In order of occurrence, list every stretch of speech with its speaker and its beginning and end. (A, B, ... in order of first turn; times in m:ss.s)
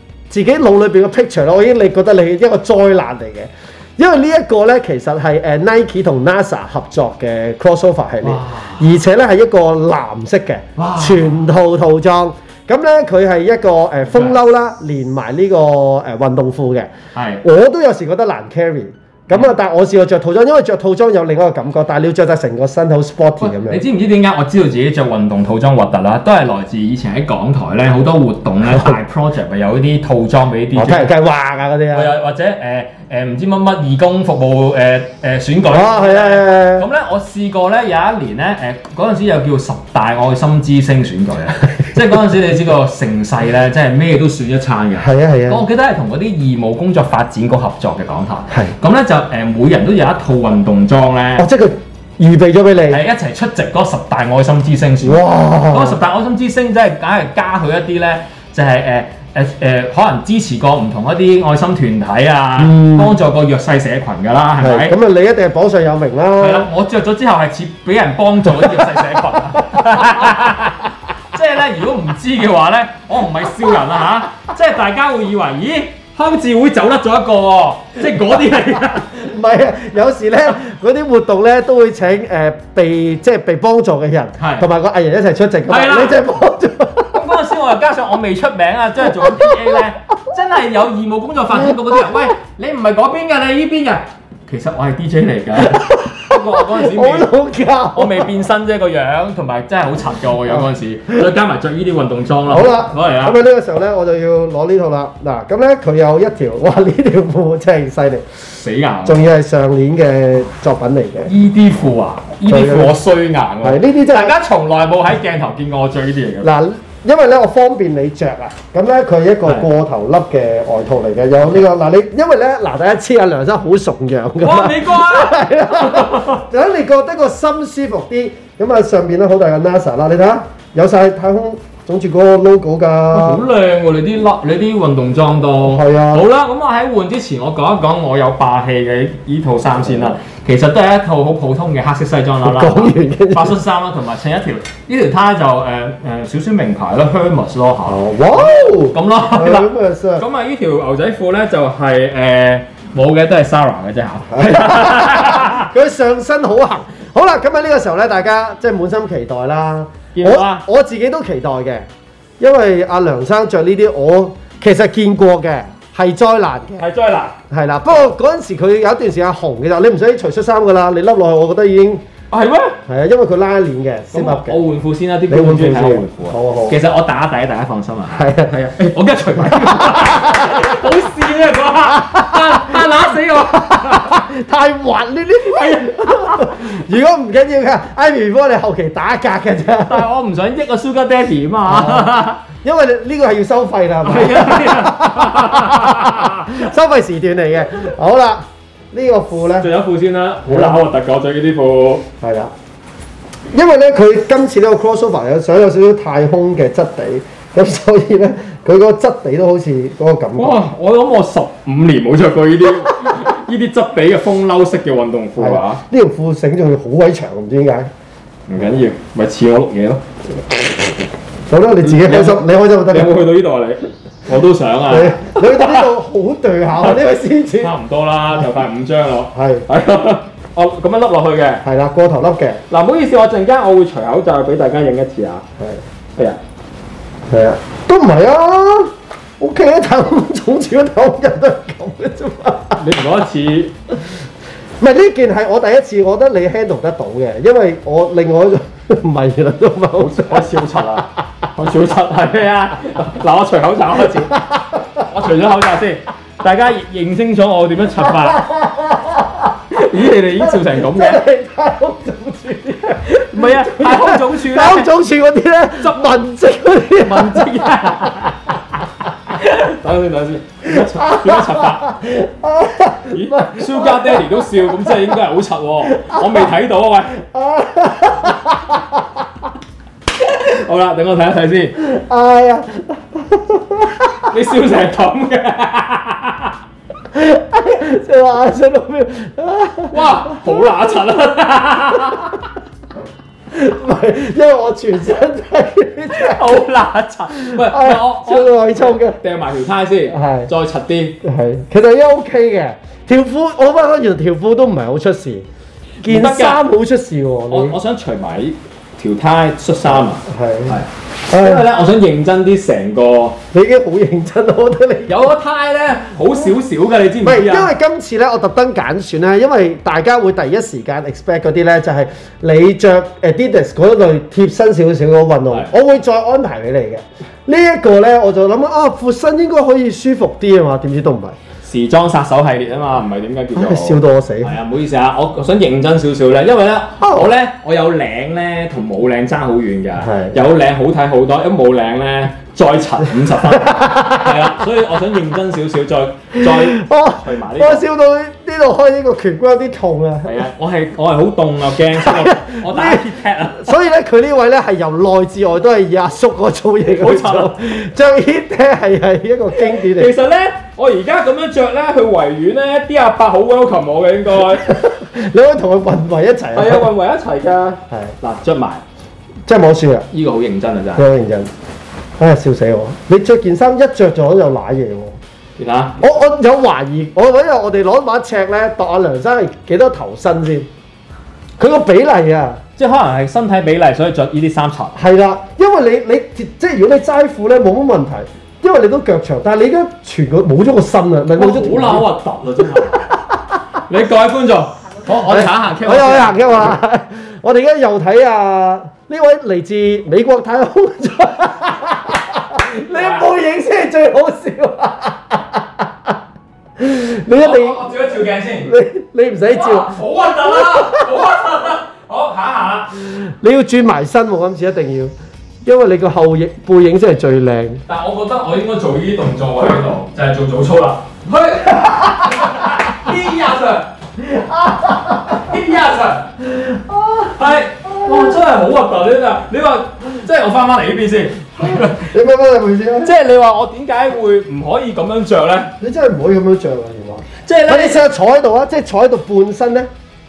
0:00.3-0:16.9 A
0:08.2-0:09.0 B
0:10.8-0:11.4 B
0:14.1-0:14.4 B
0:17.2-0:17.4 B
0:17.4-0:23.8 A
0:23.4-0:31.1 B
0:28.7-0:29.0 A
0:30.8-0:32.1 A
0:31.9-0:51.5 B
0:35.7-0:36.9 A
0:45.0-0:45.6 A
0:51.4-0:53.0 A
0:52.9-1:05.0 B
0:55.0-0:56.0 A
1:02.6-1:03.2 A
1:04.6-1:06.7 A
1:06.4-1:19.2 B
1:08.6-1:09.0 A
1:09.6-1:10.3 A
1:19.1-1:27.2 A
1:24.4-1:24.7 B
1:25.7-1:26.2 B
1:27.1-1:37.3 B
1:29.2-1:29.8 A
1:31.6-1:32.3 A
1:35.6-1:38.3 A
1:38.0-1:43.4 B
1:42.5-1:48.3 A
1:48.5-1:49.2 B
1:49.0-1:51.3 A
1:51.3-1:56.5 B
1:52.5-1:53.0 A
1:53.6-1:54.4 A
1:56.4-2:13.4 A
2:04.4-2:06.4 B
2:13.1-2:35.7 B
2:15.6-2:16.3 A
2:22.4-2:23.6 A
2:27.9-2:30.2 A
2:34.3-2:41.9 A
2:40.1-2:40.6 B
2:42.4-2:46.8 A
2:46.8-2:47.4 B
2:47.5-2:52.0 A
2:52.3-2:52.8 B
2:52.9-2:54.6 A
2:54.1-3:04.2 B
2:55.3-2:56.8 A
2:58.1-2:58.6 A
2:59.4-3:00.8 A
3:01.9-3:02.9 A
3:03.5-3:10.1 A
3:05.4-3:06.6 B
3:09.8-3:12.4 B
3:11.7-3:19.7 A
3:14.0-3:16.6 B
3:19.6-3:22.1 B
3:20.5-3:20.8 A
3:22.2-3:22.5 A
3:23.5-3:30.6 A
3:30.4-3:35.8 B
3:35.4-3:37.9 A
3:38.5-3:40.0 B
3:41.5-3:43.2 A
3:41.8-3:45.9 B
3:44.9-3:47.7 A
3:47.6-3:51.6 B
3:49.3-3:49.6 A
3:51.6-3:52.6 A
3:52.7-3:55.4 B
3:57.3-4:02.8 A
4:02.8-4:03.8 B
4:04.8-4:11.0 A
4:10.0-4:14.4 B
4:14.1-4:15.1 A
4:15.0-4:18.5 B
4:18.0-4:19.6 A
4:19.7-4:21.2 B
4:20.4-4:28.3 A
4:23.0-4:24.9 B
4:25.8-4:26.2 B
4:26.9-4:28.5 B
4:29.3-4:32.0 B
4:30.6-4:35.2 A
4:33.1-4:37.2 B
4:35.9-4:36.5 A
4:37.2-4:39.1 A
4:40.1-4:41.8 B
4:41.8-4:44.3 A
4:44.3-4:46.5 B
4:47.1-4:50.6 A
4:49.9-4:52.4 B
4:53.5-4:56.6 A
4:56.1-5:01.2 B
4:57.3-4:59.2 A
5:00.1-5:00.5 A
5:01.2-5:05.4 A
5:06.0-5:06.6 B
5:06.0-5:07.8 A
5:07.5-5:13.4 B
5:09.9-5:10.8 A
5:11.3-5:11.6 A
5:13.5-5:15.3 A
5:15.1-5:17.7 B
5:17.2-5:31.4 A
5:31.6-5:47.8 B
5:33.6-5:34.5 A
5:37.0-5:37.3 A
5:40.0-5:40.4 A
5:43.5-5:44.5 A
5:46.4-5:50.4 A
5:50.2-5:53.8 B
5:52.0-6:00.1 A
5:56.9-5:57.6 B
5:59.6-6:04.7 B
6:04.5-6:06.9 A
6:06.5-6:08.8 B
6:09.5-6:10.1 A
6:10.1-6:11.1 B
6:11.0-6:11.5 A
6:12.2-6:15.2 A
6:15.6-6:16.0 B
6:16.0-6:20.7 A
6:21.6-6:22.6 A
6:22.8-6:25.0 B
6:25.0-6:32.1 A
6:31.4-6:33.1 B
6:32.8-6:33.6 A
6:33.9-6:36.7 B
6:35.2-6:46.2 A
6:42.9-6:43.3 B
6:46.8-6:47.8 A
6:47.3-6:48.7 B
6:48.6-6:51.2 A
6:49.5-6:53.0 B
6:53.0-6:55.1 A
6:55.6-6:57.8 A
6:57.9-7:03.9 B
7:04.2-7:05.5 A
7:05.3-7:06.4 B
7:06.5-7:08.4 A
7:07.4-7:12.1 B
7:11.7-7:13.1 A
7:13.0-7:15.7 B
7:15.8-7:19.9 A
7:17.4-7:18.0 B